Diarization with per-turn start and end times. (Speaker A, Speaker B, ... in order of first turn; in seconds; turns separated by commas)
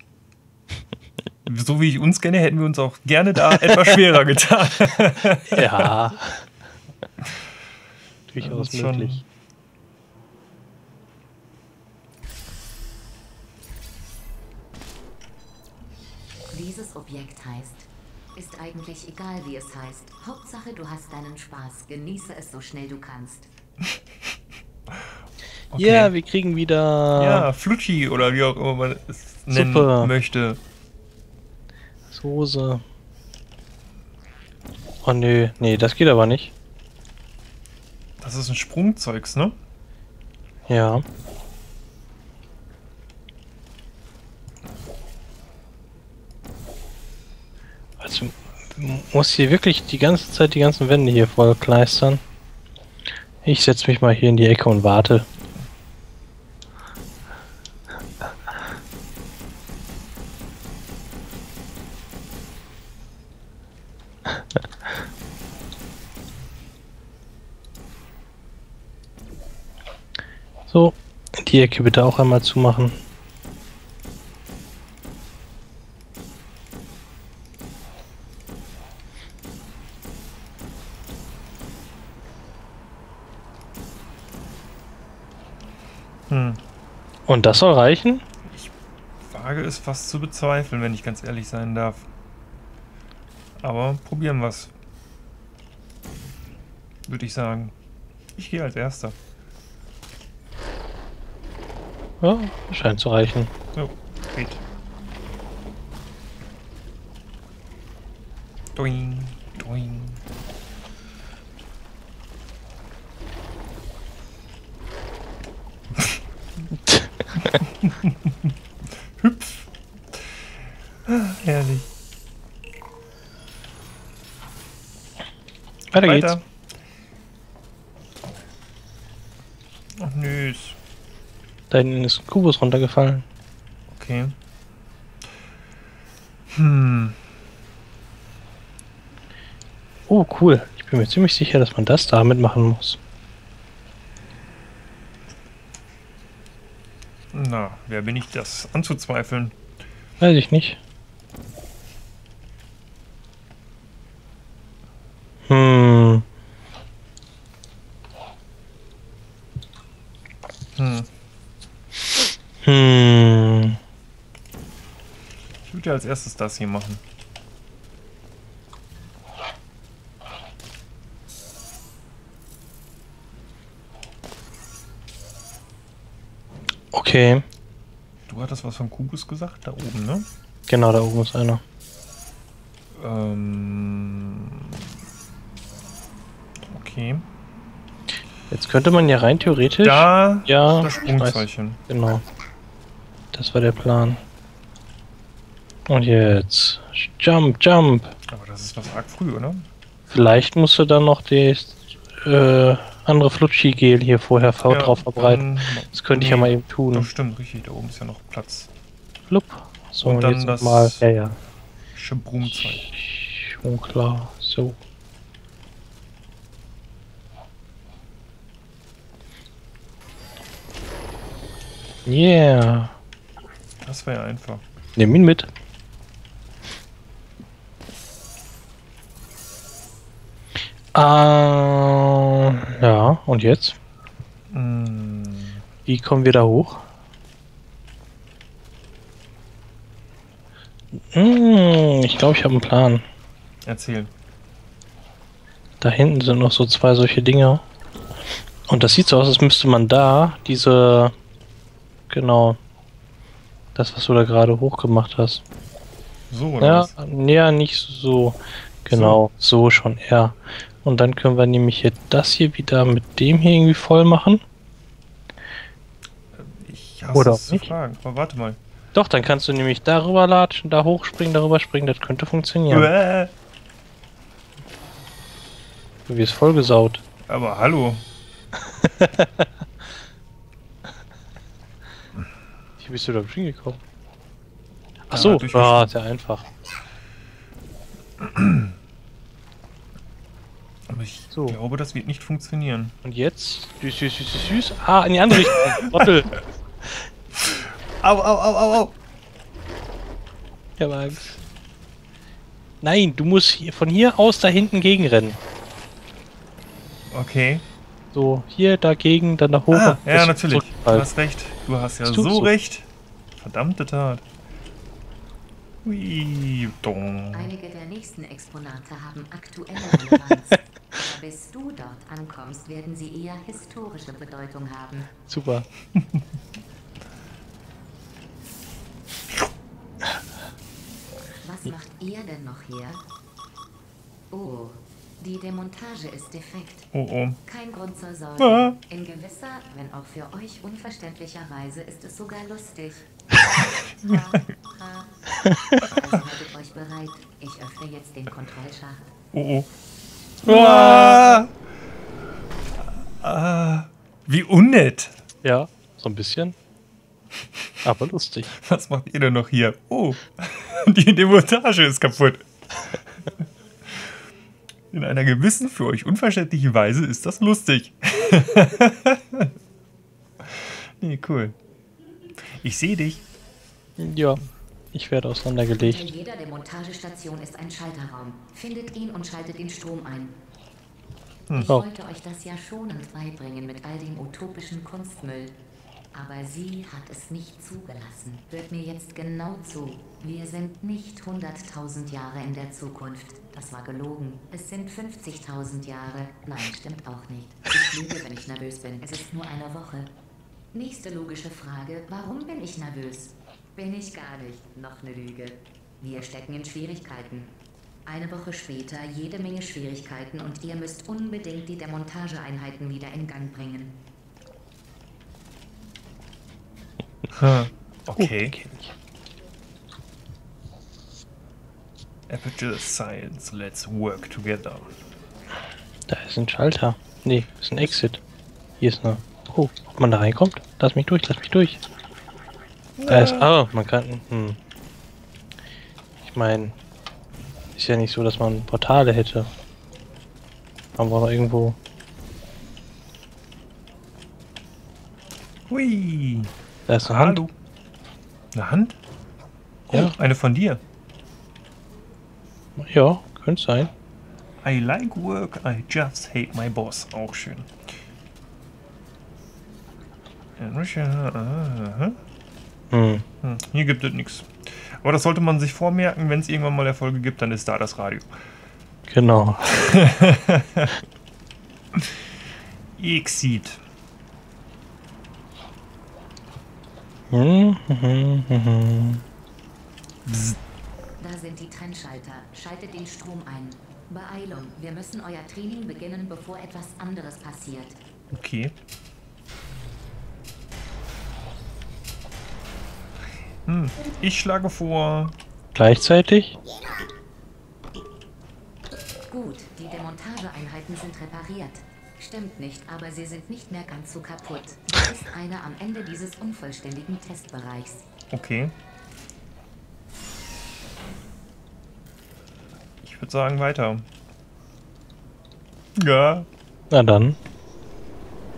Speaker A: 1.4-5.9, Speaker B: 3.6-3.9, Speaker B: 5.5-6.5, Speaker A: 7.2-7.5, Speaker B: 8.3-9.2, Speaker A: 8.4-9.2, Speaker C: 16.5-23.5, Speaker A: 25.7-26.1, Speaker B: 25.7-27.5, Speaker A: 27.2-30.6, Speaker B: 29.5-30.1, Speaker B: 32.1-32.8, Speaker B: 35.0-36.5, Speaker A: 38.2-39.6, Speaker B: 40.7-41.0, Speaker B: 48.0-52.2, Speaker B: 53.4-55.2, Speaker B: 64.3-64.6, Speaker B: 70.7-73.0, Speaker A: 86.3-86.6, Speaker B: 87.2-88.2, Speaker A: 88.4-92.1, Speaker A: 93.6-94.7, Speaker A: 97.1-97.7, Speaker A: 98.3-99.2, Speaker B: 102.2-103.5, Speaker A: 103.7-104.6, Speaker A: 108.8-110.2, Speaker B: 116.8-117.6, Speaker A: 117.5-118.3, Speaker A: 119.2-120.4, Speaker A: 121.0-121.9, Speaker B: 125.9-126.3, Speaker A: 126.0-126.4, Speaker A: 130.0-130.8, Speaker B: 131.7-133.2, Speaker A: 133.9-134.3, Speaker A: 136.5-137.2, Speaker B: 140.1-143.0, Speaker A: 147.3-149.6, Speaker B: 150.2-150.8, Speaker B: 155.5-156.2, Speaker A: 160.8-161.1, Speaker B: 162.6-163.8, Speaker A: 165.7-167.0, Speaker B: 176.9-177.4, Speaker A: 178.3-180.3, Speaker B: 180.7-181.6, Speaker A: 182.9-184.7, Speaker A: 186.7-187.2, Speaker B: 188.5-192.2, Speaker A: 189.8-191.8, Speaker B: 193.3-194.2, Speaker B: 195.9-198.1, Speaker A: 198.3-199.7, Speaker B: 200.1-207.1, Speaker A: 204.7-208.7, Speaker B: 209.3-211.4, Speaker A: 210.0-211.0, Speaker A: 211.9-212.9, Speaker B: 212.9-214.8, Speaker B: 222.1-222.9, Speaker A: 223.8-224.6, Speaker B: 224.9-225.5, Speaker B: 230.9-233.8, Speaker A: 234.5-235.6, Speaker B: 235.9-236.8, Speaker B: 240.9-243.0, Speaker A: 243.7-244.1, Speaker B: 245.8-247.6, Speaker B: 248.7-251.1, Speaker B: 252.1-252.6, Speaker B: 253.7-255.4, Speaker A: 256.3-256.9, Speaker B: 256.6-264.4, Speaker A: 258.9-259.2, Speaker A: 266.3-268.6, Speaker B: 267.1-267.7, Speaker B: 268.9-272.9, Speaker A: 272.7-273.3, Speaker B: 276.1-277.0, Speaker A: 277.3-278.1, Speaker B: 278.6-279.5, Speaker B: 282.8-283.8, Speaker B: 285.1-286.4, Speaker A: 285.1-285.9, Speaker A: 288.2-288.7, Speaker A: 290.9-292.9, Speaker B: 291.3-291.6, Speaker B: 293.0-296.3, Speaker A: 295.4-296.0, Speaker A: 297.4-298.9, Speaker B: 300.8-301.4, Speaker B: 302.8-305.4, Speaker A: 307.1-307.6, Speaker B: 308.1-311.1, Speaker A: 309.7-314.2, Speaker B: 312.0-312.5, Speaker A: 315.8-317.5, Speaker C: 317.3-325.1, Speaker B: 325.3-325.6, Speaker C: 331.4-333.0, Speaker C: 334.3-336.9, Speaker A: 336.9-337.4, Speaker C: 337.4-343.1, Speaker A: 338.4-338.8, Speaker A: 343.6-344.2, Speaker C: 344.0-345.1, Speaker B: 345.4-345.8, Speaker C: 345.9-349.1, Speaker A: 349.3-349.7, Speaker A: 350.4-351.5, Speaker B: 350.4-351.4, Speaker A: 353.0-355.2, Speaker B: 355.4-356.6, Speaker B: 357.8-358.5, Speaker A: 358.6-362.4, Speaker A: 363.9-364.1, Speaker A: 364.9-369.5, Speaker A: 370.4-371.5, Speaker A: 372.6-373.2, Speaker B: 374.0-374.4, Speaker B: 374.9-376.1, Speaker C: 375.8-380.4, Speaker C: 381.5-385.5, Speaker C: 386.1-400.1, Speaker C: 400.7-407.5, Speaker C: 408.1-413.9, Speaker A: 417.3-418.6, Speaker B: 418.2-418.9, Speaker A: 422.3-424.9, Speaker B: 426.1-428.2, Speaker B: 428.8-431.8, Speaker A: 433.0-433.5, Speaker B: 433.1-434.6, Speaker B: 436.2-436.7, Speaker B: 437.8-439.5, Speaker B: 441.0-441.8, Speaker A: 445.7-446.5, Speaker B: 446.9-447.4, Speaker A: 447.0-447.5, Speaker A: 448.5-449.0, Speaker A: 449.9-450.8, Speaker B: 452.8-453.9, Speaker A: 454.6-457.7, Speaker A: 460.6-462.2, Speaker B: 462.9-463.2, Speaker A: 463.4-468.4, Speaker B: 469.1-469.8, Speaker A: 469.7-471.0, Speaker A: 471.9-472.2, Speaker A: 473.0-473.8, Speaker B: 477.3-479.2, Speaker A: 480.2-480.6, Speaker C: 481.2-488.0, Speaker A: 488.3-488.7, Speaker A: 493.6-495.4, Speaker B: 495.7-496.6, Speaker C: 499.3-508.1, Speaker A: 508.3-508.7, Speaker A: 513.0-514.0, Speaker A: 516.0-516.5, Speaker B: 516.9-517.4